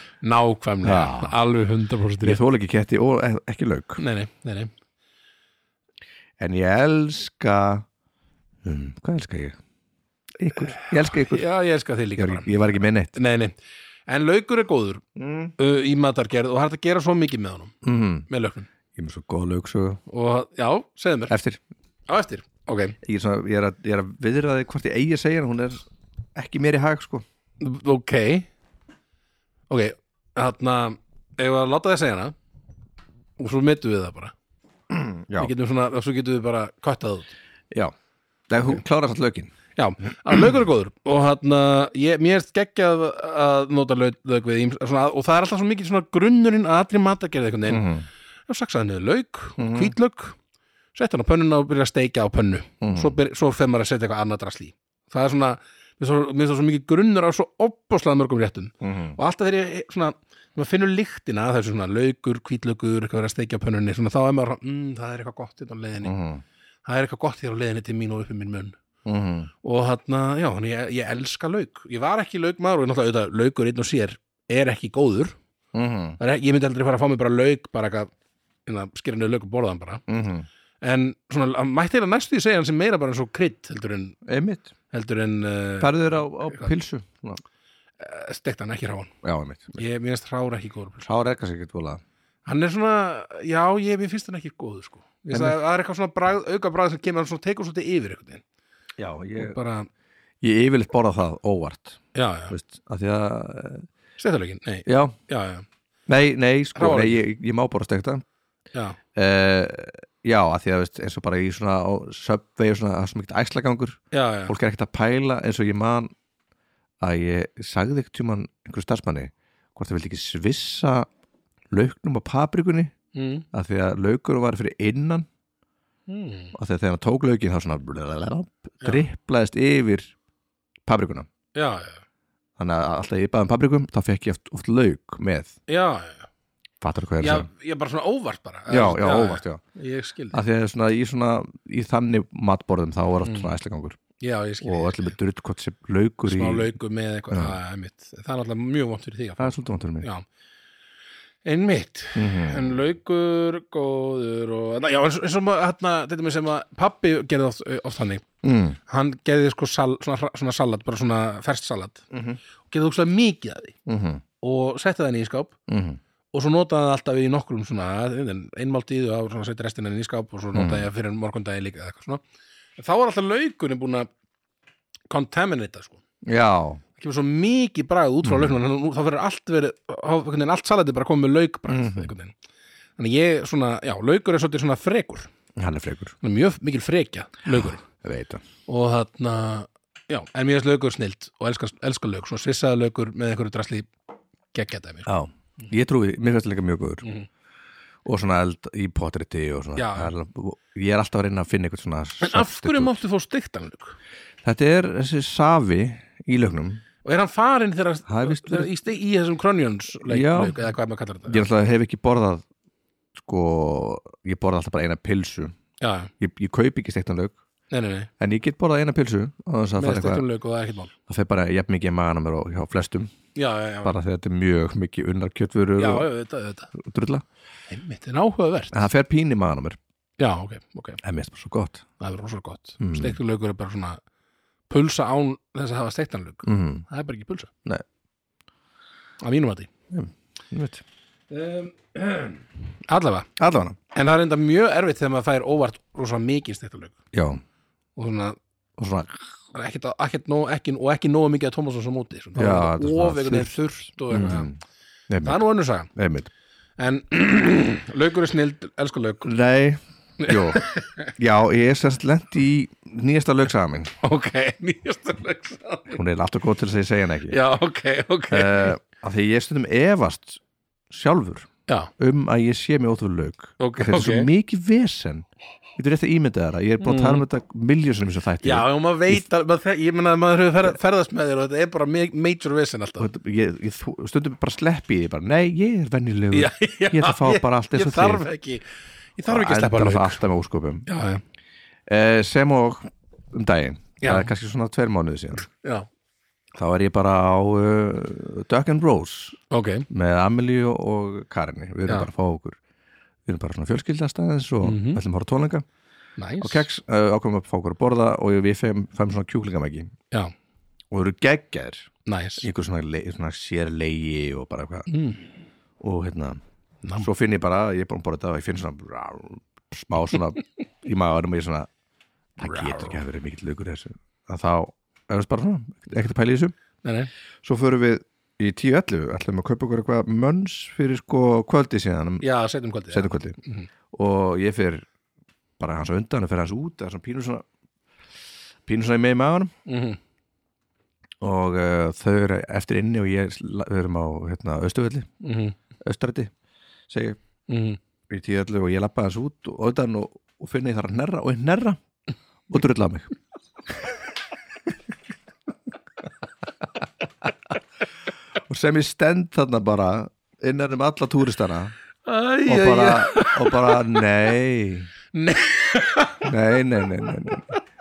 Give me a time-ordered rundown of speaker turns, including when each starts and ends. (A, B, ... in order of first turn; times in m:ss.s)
0:00.2-0:02.4 A
0:00.8-0:01.4 B
0:02.2-0:04.0 B
0:04.0-0:04.7 A
0:06.4-0:07.8 B
0:08.6-0:09.6 B
0:10.4-0:11.4 B
0:10.7-0:12.6 A
0:12.2-0:13.1 B
0:13.1-0:13.6 A
0:14.1-0:15.0 A
0:15.2-0:15.5 B
0:15.6-0:17.7 A
0:17.8-0:18.2 B
0:18.3-0:18.7 A
0:18.9-0:20.0 B
0:20.1-0:21.3 A
0:21.3-0:21.6 B
0:22.1-0:23.0 A
0:23.0-0:25.8 B
0:26.3-0:27.2 B
0:27.6-0:28.5 A
0:29.7-0:32.3 A
0:33.4-0:34.3 A
0:34.9-0:35.5 B
0:35.4-0:37.3 A
0:38.5-0:39.5 B
0:39.8-0:47.9 A
0:47.7-0:48.0 B
0:48.5-0:50.4 A
0:49.6-0:49.9 B
0:50.9-1:06.1 A
0:52.8-0:53.2 B
0:58.8-0:59.2 B
1:06.0-1:06.4 B
1:06.8-1:08.8 A
1:09.0-1:09.5 B
1:09.6-1:15.4 A
1:15.7-1:16.2 B
1:16.2-1:18.1 A
1:18.6-1:20.0 A
1:20.1-1:20.5 B
1:20.8-1:24.2 A
1:24.2-1:24.7 B
1:24.9-1:26.7 A
1:25.8-1:27.4 B
1:28.0-1:29.1 A
1:29.2-1:29.8 B
1:29.7-1:31.1 A
1:31.0-1:32.0 B
1:32.4-1:38.4 A
1:35.3-1:35.6 B
1:39.0-1:39.6 B
1:39.4-1:39.9 A
1:40.4-1:43.9 B
1:42.1-1:42.5 A
1:44.2-1:45.6 A
1:44.8-1:45.1 B
1:46.1-1:48.2 B
1:46.7-1:47.2 A
1:49.2-1:56.1 B
1:54.1-1:54.5 A
1:57.0-2:01.1 B
2:01.7-2:02.9 B
2:03.1-2:03.4 A
2:03.5-2:05.3 B
2:06.1-2:06.5 A
2:06.5-2:10.1 B
2:10.8-2:11.3 B
2:11.5-2:12.0 A
2:12.6-2:15.5 B
2:15.7-2:16.3 A
2:16.8-2:17.5 B
2:17.2-2:20.4 A
2:18.7-2:19.6 B
2:20.3-2:24.0 B
2:23.2-2:23.5 A
2:24.2-2:25.1 A
2:24.6-2:26.7 B
2:26.3-2:30.2 A
2:29.4-2:30.1 B
2:31.4-2:38.2 A
2:32.2-2:32.8 B
2:38.4-2:38.8 B
2:38.9-2:42.0 A
2:42.1-2:42.4 B
2:42.7-2:43.8 A
2:43.9-2:44.2 B
2:44.4-2:45.6 A
2:45.7-2:46.0 B
2:46.3-2:52.2 A
2:50.5-2:50.9 B
2:52.8-2:54.1 A
2:55.1-2:56.0 A
2:56.2-2:56.8 B
2:57.0-3:02.3 A
2:58.2-2:58.6 B
3:01.7-3:02.1 B
3:03.0-3:05.3 A
3:05.6-3:06.2 B
3:06.2-3:07.8 A
3:07.5-3:08.4 B
3:08.7-3:13.9 A
3:14.5-3:15.1 A
3:15.0-3:17.0 B
3:18.0-3:22.9 B
3:19.8-3:20.1 A
3:22.2-3:24.0 A
3:24.4-3:26.8 B
3:27.0-3:31.5 A
3:28.1-3:28.7 B
3:30.0-3:30.6 B
3:31.3-3:32.4 B
3:33.2-3:35.5 B
3:35.8-3:36.1 A
3:36.2-3:37.4 B
3:37.7-3:38.1 A
3:38.2-3:40.2 B
3:39.8-3:40.9 A
3:41.1-3:43.1 B
3:43.3-3:44.0 A
3:43.8-3:46.1 B
3:45.8-3:46.7 A
3:46.7-3:47.2 B
3:47.7-3:48.8 A
3:48.7-3:49.8 B
3:50.2-3:51.0 A
3:51.0-3:51.8 B
3:52.0-3:54.0 A
3:52.8-3:53.2 B
3:54.7-3:57.5 A
3:56.4-3:56.8 B
3:59.2-3:59.7 A
3:59.9-4:00.8 B
4:01.3-4:03.3 A
4:03.4-4:03.8 B
4:03.9-4:07.0 A
4:07.1-4:07.4 B
4:08.0-4:08.4 A
4:08.8-4:09.1 B
4:09.5-4:14.5 A
4:12.3-4:14.6 B
4:15.1-4:16.3 B
4:15.2-4:15.9 A
4:16.8-4:19.3 A
4:19.2-4:20.6 B
4:20.2-4:21.1 A
4:21.2-4:23.9 B
4:24.0-4:26.0 A
4:25.9-4:27.4 B
4:27.3-4:28.8 A
4:28.3-4:35.2 B
4:33.6-4:34.3 A
4:35.8-4:39.2 B
4:36.8-4:37.2 A
4:38.4-4:43.1 A
4:43.0-4:48.2 B
4:46.3-4:48.6 A
4:49.2-4:50.2 A
4:49.3-4:50.9 B
4:50.8-4:51.2 A
4:51.9-4:55.4 B
4:54.0-4:54.3 A
4:55.4-4:55.9 A
4:56.5-4:59.4 B
4:59.5-4:59.9 A
4:59.9-5:02.6 B
5:03.2-5:05.6 B
5:04.6-5:05.0 A
5:06.2-5:06.6 A
5:06.4-5:09.9 B
5:10.9-5:11.9 B
5:12.0-5:12.5 A
5:12.4-5:14.9 B
5:14.9-5:15.3 A
5:15.8-5:16.4 B
5:16.8-5:17.1 A
5:17.0-5:21.7 B
5:22.4-5:26.5 B
5:22.4-5:23.0 A
5:26.8-5:27.1 A
5:27.4-5:32.2 B
5:32.2-5:33.7 A
5:32.9-5:33.4 B
5:33.9-5:34.8 B
5:35.6-5:37.4 B
5:38.6-5:39.5 B
5:39.6-5:40.0 A
5:41.2-5:45.1 B
5:45.2-5:45.6 A
5:45.8-5:46.3 B
5:46.9-5:47.2 B
5:47.5-5:47.8 A
5:48.1-5:51.8 B
5:52.5-5:53.1 B
5:58.5-6:01.7 B
6:02.0-6:04.0 A
6:02.4-6:04.9 B
6:05.1-6:06.3 A
6:06.2-6:07.5 B